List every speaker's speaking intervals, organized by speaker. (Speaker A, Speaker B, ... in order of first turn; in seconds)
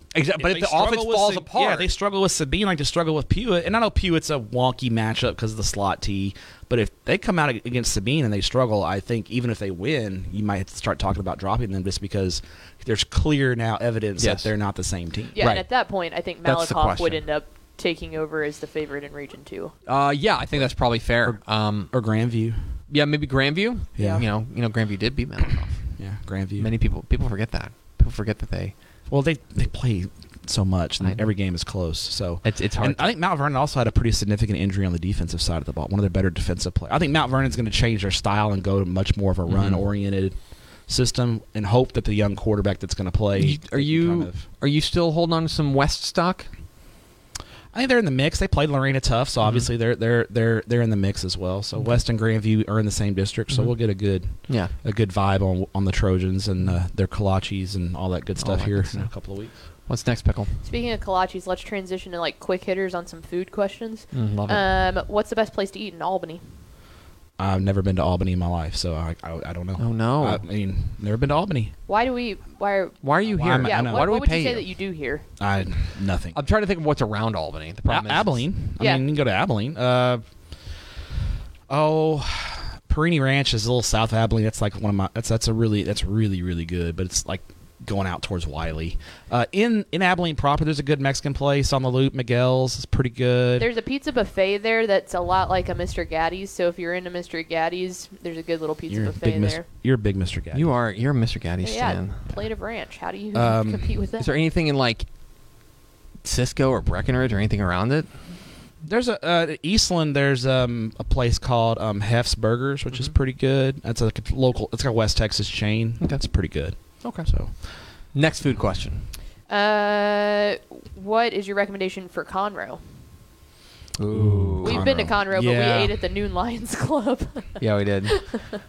Speaker A: 0.1-1.9, 14.2-14.5, 15.4-15.7, 16.4-17.2, 19.9-21.9, 22.9-25.9, 26.6-28.7, 32.4-33.1, 39.5-39.9, 43.4-46.5, 49.4-49.7, 53.5-53.8, 54.5-54.7, 58.4-59.1, 59.9-60.5, 64.1-64.7, 69.8-70.4, 73.0-74.7, 76.3-78.5, 100.5-102.2, 104.2-105.1, 106.2-108.1, 117.0-117.3, 118.1-119.1, 124.0-124.9, 127.6-128.2
Speaker B: 0.4-15.5, 21.9-22.6, 24.0-24.3, 26.0-26.7, 29.1-40.4, 40.9-44.5, 47.7-59.5, 67.4-71.7, 73.2-74.1, 75.4-76.4, 77.9-80.2, 81.7-93.7, 98.9-100.7, 103.3-103.9, 108.8-117.5, 124.1-126.0
Speaker C: 15.3-19.7, 24.0-24.2, 60.6-66.4, 71.9-73.0, 73.6-75.2, 78.8-79.0, 93.6-99.7, 101.6-104.3, 119.5-122.8, 124.6-128.6